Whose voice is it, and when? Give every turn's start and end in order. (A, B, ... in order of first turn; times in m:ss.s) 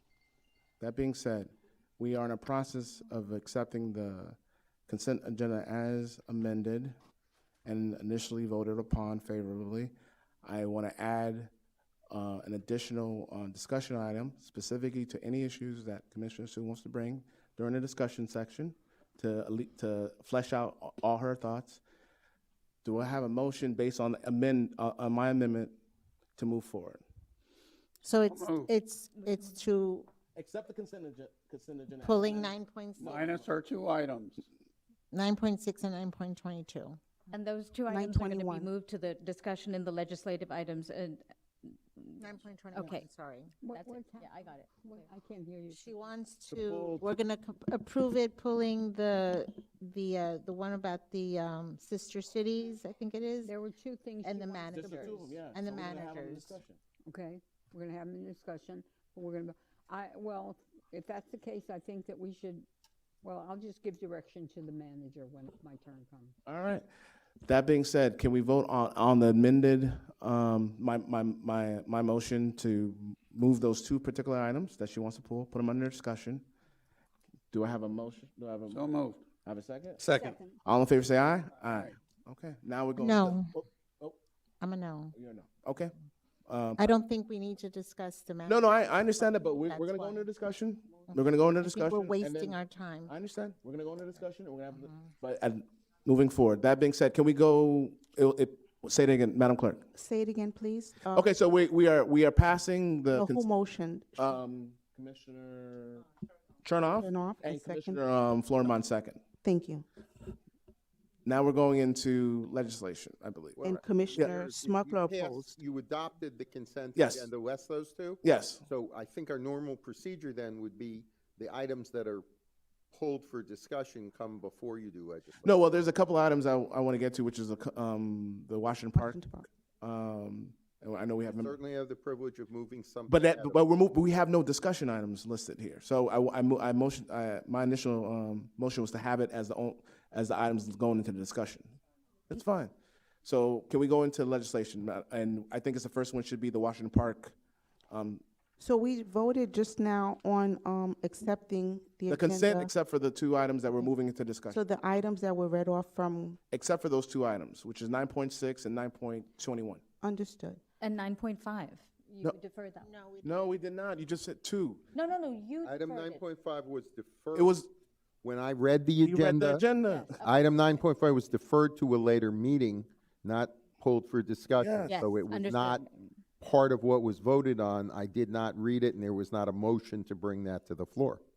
0:00.8-0:04.4 A
0:04.9-0:07.0 A
0:07.6-0:11.5 A
0:12.1-0:21.8 A
0:22.8-0:25.8 A
0:26.4-0:27.0 A
0:28.0-0:30.1 B
0:28.3-0:28.7 C
0:30.3-0:33.5 A
0:32.0-0:33.4 B
0:33.0-0:34.4 C
0:35.1-0:37.0 B
0:37.3-0:41.2 D
0:37.9-0:38.7 E
0:42.0-0:43.0 D
0:42.2-0:43.5 B
0:43.6-0:44.3 F
0:43.6-0:45.0 D
0:44.8-0:45.8 F
0:45.7-0:53.5 B
0:46.5-0:47.0 A
0:53.4-0:55.2 F
0:54.2-0:56.6 B
0:54.7-0:56.8 A
0:57.1-1:02.6 F
1:03.2-1:06.3 F
1:06.4-1:06.9 A
1:07.4-1:16.4 A
1:17.5-1:20.0 A
1:18.7-1:19.2 C
1:20.0-1:20.4 C
1:20.1-1:20.6 F
1:20.6-1:24.2 A
1:23.0-1:23.5 B
1:24.6-1:25.1 B
1:25.1-1:25.9 A
1:26.5-1:26.8 A
1:26.8-1:28.6 B
1:28.4-1:32.5 A
1:29.2-1:30.2 B
1:31.6-1:33.1 B
1:33.1-1:39.9 A
1:39.9-1:41.3 E
1:41.1-1:43.5 A
1:43.1-1:44.4 E
1:44.2-1:46.0 A
1:46.6-1:49.2 A
1:47.0-1:48.0 E
1:49.4-1:49.8 E
1:51.2-1:54.5 A
1:53.6-1:55.6 E
1:53.6-2:02.2 G
1:56.9-1:57.3 A
1:58.2-1:58.6 A
2:02.9-2:05.5 G
2:05.4-2:09.2 A
2:08.9-2:09.4 E
2:09.8-2:11.6 A
2:11.3-2:13.6 G
2:13.1-2:21.8 A
2:22.3-2:22.7 A
2:23.2-2:27.3 A
2:27.9-2:28.2 A
2:28.6-2:32.7 E
2:32.1-2:34.6 A
2:34.5-2:36.4 E
2:36.5-2:39.8 A
2:40.0-2:40.6 E
2:40.8-2:42.9 D
2:42.8-2:43.4 B
2:43.2-2:44.8 A
2:44.9-2:46.2 D
2:45.6-2:47.6 G
2:47.3-2:47.7 A
2:48.2-2:49.6 G
2:49.0-2:50.2 A
2:49.8-2:50.9 D
2:50.2-2:55.8 G
2:54.6-2:55.1 A
2:54.8-2:56.1 D
2:56.4-3:01.2 G